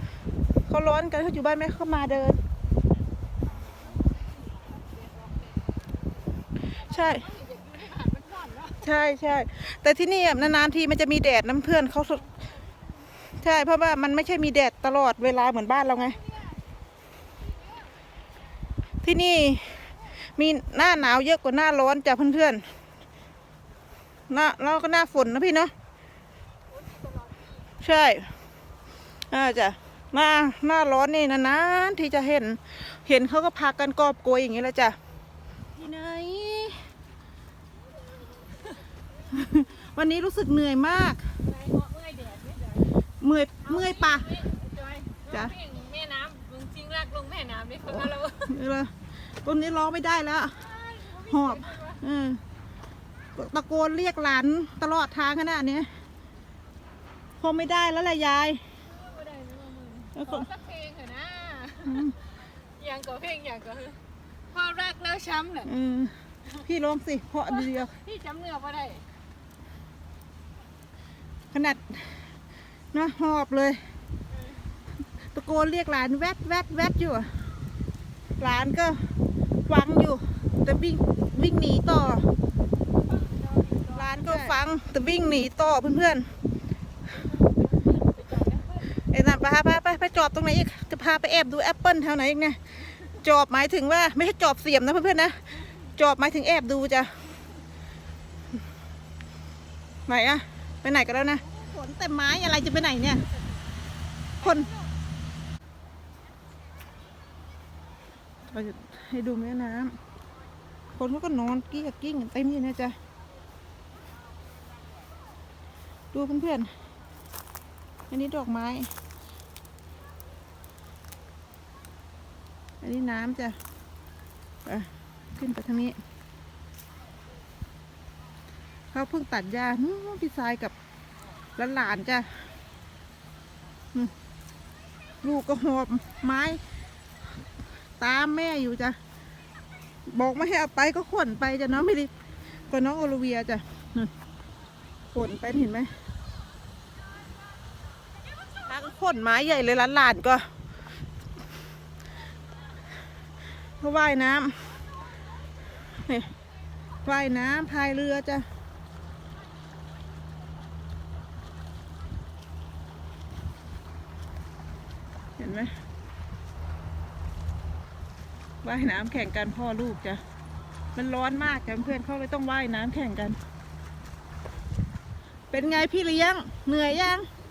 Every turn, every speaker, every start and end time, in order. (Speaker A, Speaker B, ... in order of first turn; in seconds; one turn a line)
Speaker A: 0.7-2.4
Speaker B: 3.9-5.6
Speaker B: 6.8-8.9
Speaker A: 6.8-7.3
Speaker A: 8.8-12.3
Speaker A: 13.4-16.2
Speaker B: 16.1-16.6
Speaker A: 19.0-22.6
Speaker A: 24.3-25.7
Speaker B: 26.8-27.5
Speaker A: 27.8-28.3
Speaker A: 29.3-35.0
Speaker A: 35.8-36.8
Speaker A: 39.3-41.2
Speaker B: 41.4-43.0
Speaker A: 43.2-44.3
Speaker B: 43.6-48.6
Speaker A: 47.9-48.9
Speaker A: 49.4-50.6
Speaker B: 50.6-52.0
Speaker A: 51.2-52.4
Speaker A: 53.4-55.9
Speaker A: 57.4-58.6
Speaker B: 58.9-64.0
Speaker A: 60.1-60.5
Speaker A: 61.9-62.1
Speaker B: 64.5-65.7
Speaker A: 65.7-66.1
Speaker A: 66.6-67.9
Speaker B: 67.5-69.0
Speaker A: 71.5-72.3
Speaker A: 72.9-73.8
Speaker A: 75.3-77.3
Speaker A: 78.4-79.1
Speaker A: 79.7-82.3
Speaker B: 83.1-84.6
Speaker A: 84.0-86.3
Speaker B: 87.1-89.0
Speaker A: 89.0-95.4
Speaker A: 96.0-97.1
Speaker A: 100.1-103.2
Speaker B: 104.4-104.9
Speaker A: 104.4-104.7
Speaker A: 108.5-110.0
Speaker A: 111.0-113.0
Speaker A: 116.1-116.7
Speaker A: 118.1-118.9
Speaker A: 122.8-123.6
Speaker A: 124.7-126.0
Speaker A: 128.9-130.7
Speaker A: 131.6-132.4
Speaker A: 135.2-136.6
Speaker A: 138.0-139.0
Speaker A: 140.1-142.1
Speaker A: 142.7-144.1
Speaker A: 145.1-145.9
Speaker A: 148.7-150.5
Speaker A: 153.8-154.7
Speaker A: 156.1-156.3
Speaker A: 157.1-158.4
Speaker A: 165.4-165.7
Speaker A: 168.6-170.2
Speaker A: 170.9-173.4
Speaker A: 175.5-177.3